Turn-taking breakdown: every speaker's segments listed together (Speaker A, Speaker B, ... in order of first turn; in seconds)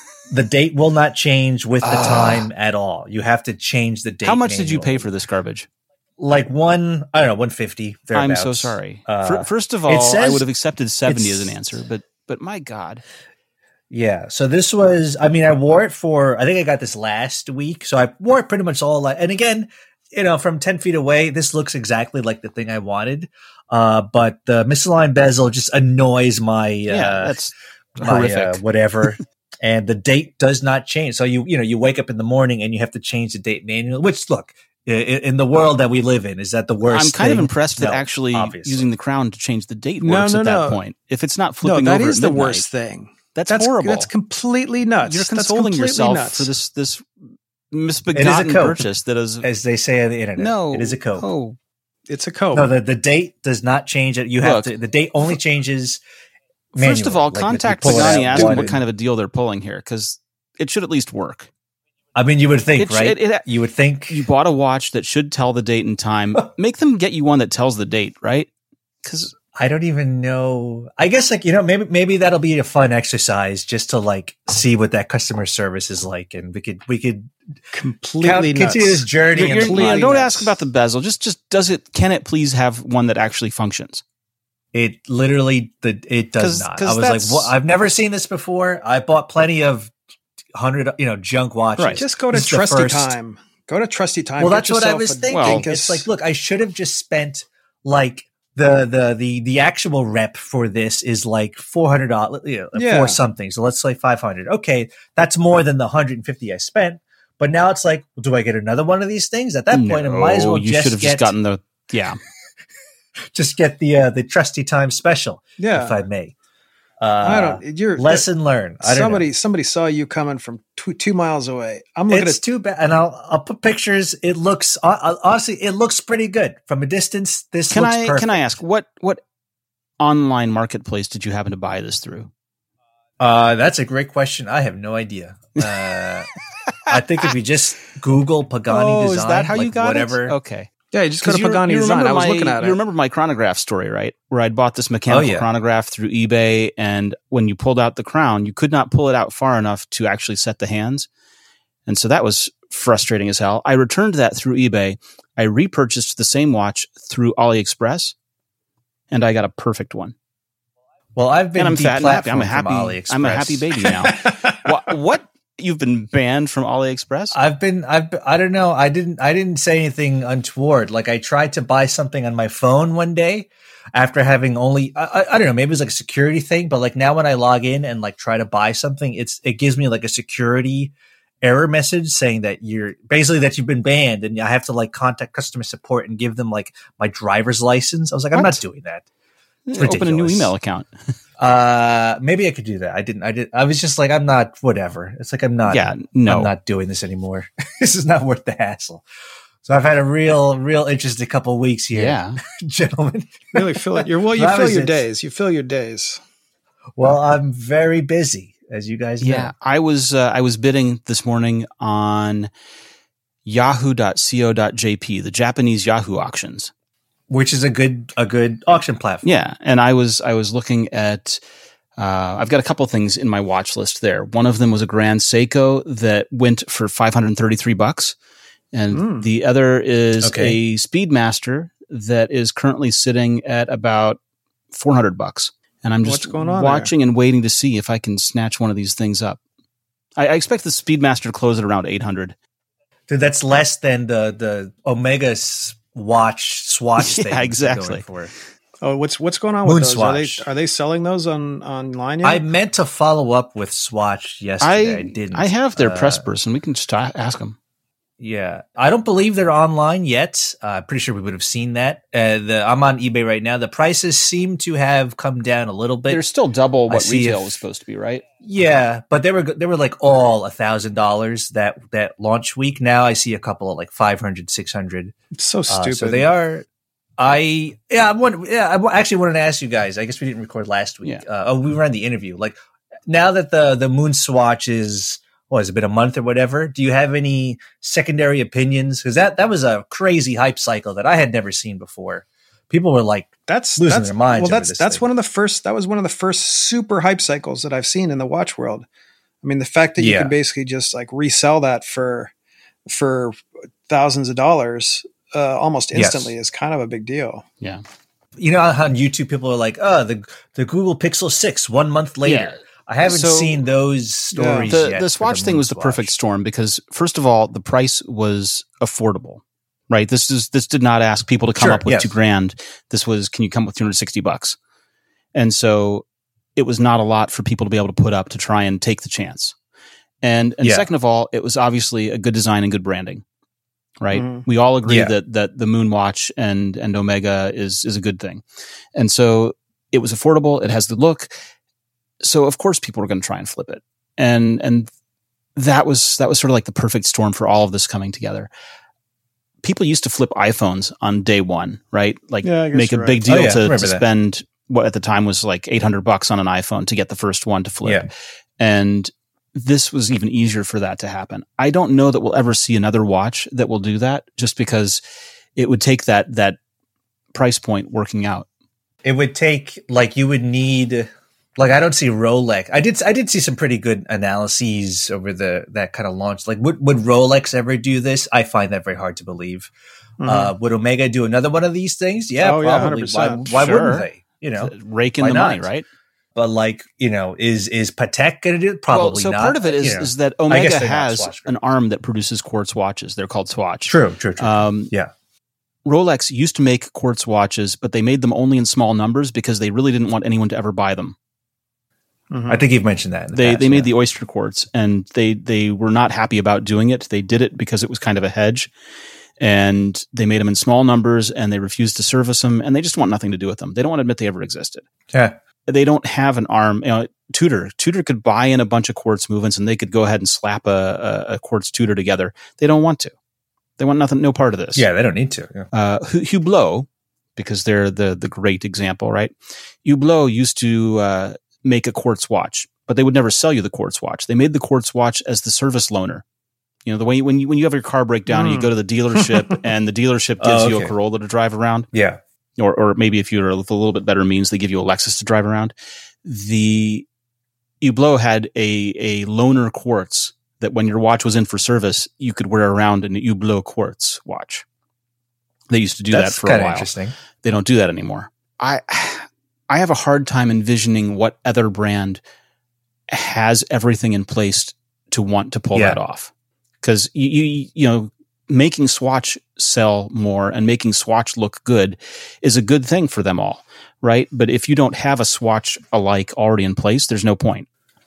Speaker A: 0.3-5.1, 6.2-10.5, 11.1-11.6, 13.9-27.4, 28.0-38.9, 48.1-48.9, 49.4-51.3, 52.5-56.0, 56.8-58.8, 62.1-64.3, 69.6-77.3, 78.2-80.2, 84.7-89.9, 90.5-93.2, 94.4-111.3, 113.3-116.3, 117.0-119.3, 122.1-128.6, 133.2-136.3, 136.9-140.4, 145.1-145.5, 161.2-163.9, 167.3-189.1, 189.8-190.5, 191.4-199.0, 199.6-205.1, 207.0-209.5, 217.3-219.3, 230.2-230.6, 243.1-248.3, 249.7-250.4, 252.2-256.3, 258.2-266.2, 266.9-267.6, 268.4-275.1, 275.7-276.7, 277.2-282.6, 283.1-295.1, 300.0-300.4, 305.9-306.3, 308.4-316.2, 321.6-322.1, 330.6-330.9, 334.9-335.1, 353.3-354.1, 357.8-358.1, 369.0-379.7, 380.2-385.7, 386.4-391.6, 393.9-395.1, 402.5-403.9, 424.8-425.7, 440.4-440.9, 441.9-442.2, 456.1-457.2, 465.7-466.0
Speaker B: 1.8-2.5, 4.2-5.7, 8.1-13.0, 26.9-28.6, 36.9-42.6, 43.4-44.1, 45.0-47.1, 47.7-49.5, 50.4-51.6, 54.4-54.7, 56.8-61.5, 62.8-63.4, 64.1-68.5, 69.0-69.3, 79.3-84.0, 86.4-87.5, 91.8-92.0, 95.3-95.7, 109.7-112.2, 127.7-129.2, 130.0-132.3, 138.7-140.7, 141.2-151.1, 151.9-158.2, 159.1-160.2, 161.6-167.4, 188.3-188.6, 189.7-190.9, 195.7-196.5, 201.9-202.4, 209.2-212.5, 213.4-216.7, 219.2-221.4, 222.0-228.2, 228.7-234.2, 234.7-239.4, 240.2-242.3, 247.0-248.1, 254.6-257.6, 266.1-268.2, 312.2-313.6, 314.7-324.6, 325.3-329.6, 330.2-333.2, 334.0-338.4, 338.9-341.3, 342.2-344.9, 345.6-348.5, 349.6-365.0, 365.6-366.6, 367.3-368.5, 383.4-385.9, 388.9-394.9, 395.9-401.2, 403.3-408.7, 409.4-414.8, 415.7-423.1, 423.8-424.9, 425.7-436.2, 436.9-441.9, 442.6-447.1, 447.8-454.6, 455.7-456.9, 457.4-462.2, 463.1-466.3, 466.8-477.7
Speaker C: 40.0-40.8, 41.6-46.5, 52.1-52.7, 57.8-58.7, 77.7-80.6, 92.0-96.1, 102.8-103.2, 115.6-116.0, 117.2-118.3, 118.8-122.4, 140.9-142.8, 203.5-206.2, 228.9-229.3, 236.0-236.9, 248.8-252.4, 275.4-276.3, 293.5-298.9, 299.4-302.3, 302.9-303.4, 303.9-307.4, 314.3-314.8, 334.1-334.4, 352.4-353.3, 380.2-380.5, 382.4-383.6, 402.3-402.6, 438.3-439.6